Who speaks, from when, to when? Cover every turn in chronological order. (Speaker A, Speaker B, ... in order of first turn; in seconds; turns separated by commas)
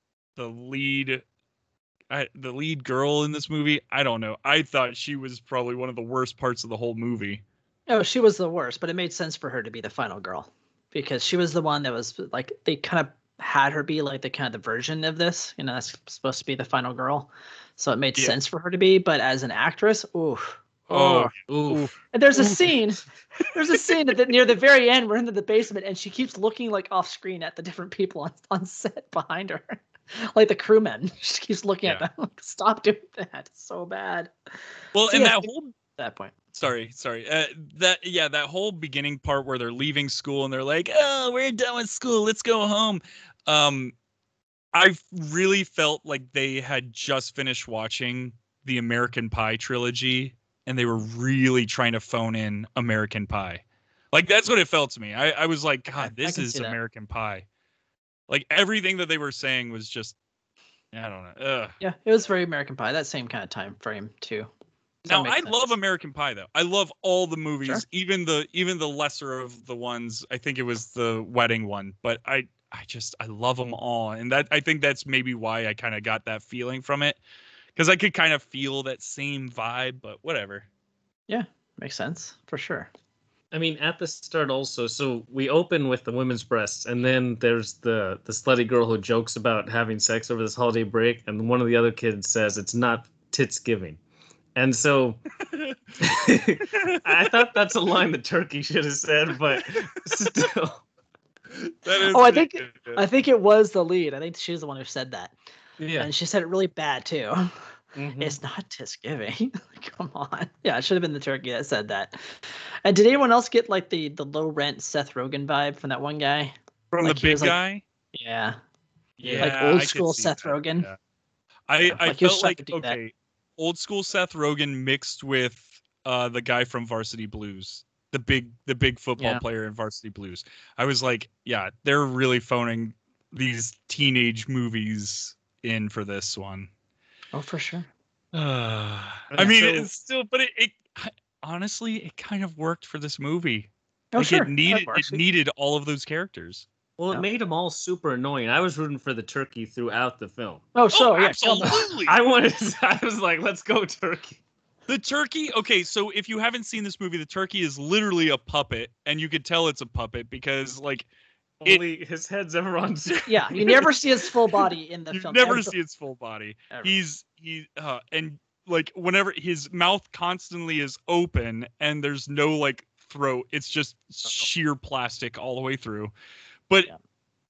Speaker A: 0.4-1.2, Speaker A: 2.1-7.4, Speaker B: 7.9-20.6, Speaker C: 20.9-21.9, Speaker A: 20.9-21.9, Speaker B: 22.1-23.0, Speaker B: 23.5-34.3, Speaker A: 34.9-35.7, Speaker B: 35.1-36.4, Speaker A: 36.5-43.9, Speaker A: 44.7-57.5, Speaker B: 56.0-56.8, Speaker A: 58.3-60.1, Speaker A: 60.9-61.8, Speaker B: 61.8-64.5, Speaker B: 65.0-65.7, Speaker A: 65.1-77.2, Speaker A: 77.8-80.7, Speaker B: 81.3-82.9, Speaker C: 83.5-94.0, Speaker C: 94.5-95.2, Speaker C: 96.0-100.8, Speaker A: 96.6-97.3, Speaker A: 99.5-100.3, Speaker A: 101.5-103.0, Speaker B: 102.0-105.3, Speaker C: 105.8-106.1, Speaker B: 106.0-107.6, Speaker C: 108.0-108.4, Speaker B: 108.2-117.6, Speaker A: 116.9-117.8, Speaker B: 118.1-118.6, Speaker A: 119.2-121.0, Speaker C: 119.2-119.5, Speaker B: 119.4-120.9, Speaker A: 121.7-136.7, Speaker B: 121.8-123.0, Speaker B: 137.3-137.9, Speaker A: 138.3-146.7, Speaker C: 139.3-139.9, Speaker B: 144.1-145.2, Speaker C: 147.0-150.6, Speaker B: 150.7-151.9, Speaker A: 150.9-152.2, Speaker C: 152.1-154.4, Speaker A: 154.9-161.1, Speaker C: 161.6-163.8, Speaker A: 163.2-163.8, Speaker B: 163.3-165.7, Speaker A: 165.1-176.1, Speaker B: 166.7-167.0